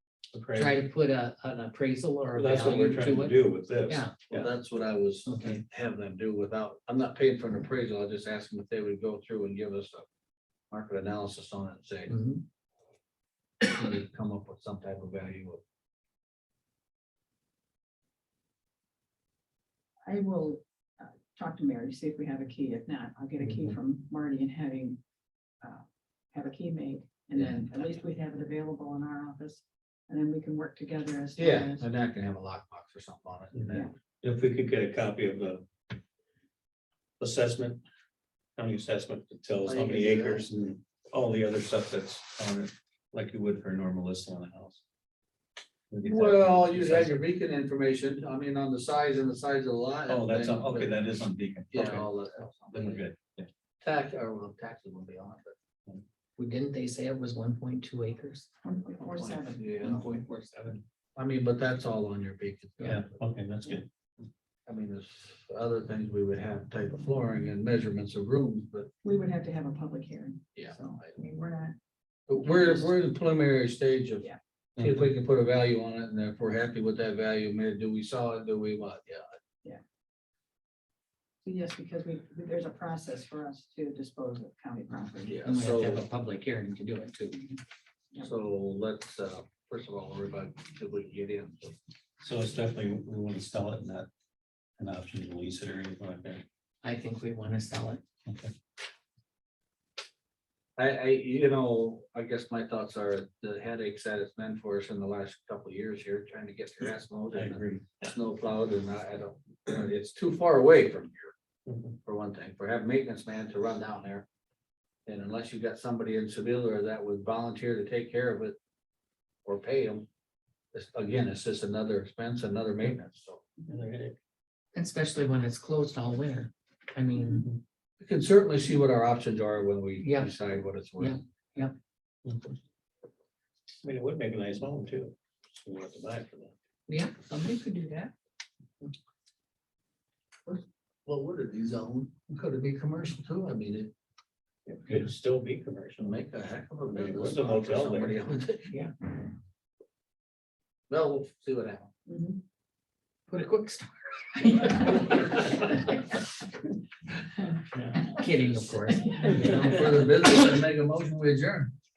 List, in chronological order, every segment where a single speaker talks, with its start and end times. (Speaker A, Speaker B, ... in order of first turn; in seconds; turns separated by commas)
Speaker A: 0.3-0.8, Speaker B: 0.5-4.2, Speaker A: 2.3-4.5, Speaker C: 4.3-10.1, Speaker B: 5.3-5.6, Speaker C: 10.7-12.2, Speaker B: 12.1-12.4, Speaker C: 13.6-15.6, Speaker D: 20.1-25.0, Speaker A: 23.4-23.8, Speaker D: 25.6-31.9, Speaker C: 31.4-33.9, Speaker A: 33.5-35.6, Speaker A: 37.2-37.8, Speaker A: 38.6-44.8, Speaker C: 39.6-40.5, Speaker A: 45.9-47.1, Speaker C: 46.1-51.0, Speaker A: 50.1-52.1, Speaker C: 51.7-53.0, Speaker A: 52.7-53.5, Speaker C: 53.8-55.5, Speaker B: 56.4-58.5, Speaker D: 58.6-59.7, Speaker C: 59.0-60.3, Speaker B: 59.8-60.8, Speaker C: 61.2-63.0, Speaker A: 62.8-63.9, Speaker C: 64.7-68.9, Speaker D: 69.0-71.8, Speaker C: 70.6-71.1, Speaker C: 72.3-79.2, Speaker D: 72.4-72.8, Speaker A: 74.8-75.1, Speaker D: 81.4-85.4, Speaker C: 85.3-86.0, Speaker B: 85.4-87.6, Speaker C: 88.2-91.8, Speaker A: 92.2-94.1, Speaker A: 94.8-96.5, Speaker B: 96.8-98.0, Speaker A: 98.3-98.5, Speaker C: 100.8-111.3, Speaker A: 107.3-108.1, Speaker A: 111.7-112.0, Speaker C: 112.0-114.3, Speaker C: 115.1-118.6, Speaker C: 119.5-120.1, Speaker C: 120.7-123.5, Speaker A: 123.7-124.2, Speaker B: 124.8-127.5, Speaker A: 127.4-127.6, Speaker C: 128.0-131.2, Speaker B: 130.0-130.4, Speaker B: 131.0-131.8, Speaker A: 132.2-132.6, Speaker A: 133.8-136.5, Speaker B: 136.9-138.1, Speaker C: 140.5-143.9, Speaker A: 144.7-146.2, Speaker C: 146.0-148.7, Speaker A: 146.9-148.2, Speaker C: 150.9-151.9, Speaker D: 152.1-152.4, Speaker B: 153.3-155.7, Speaker B: 157.8-160.3, Speaker C: 159.4-161.7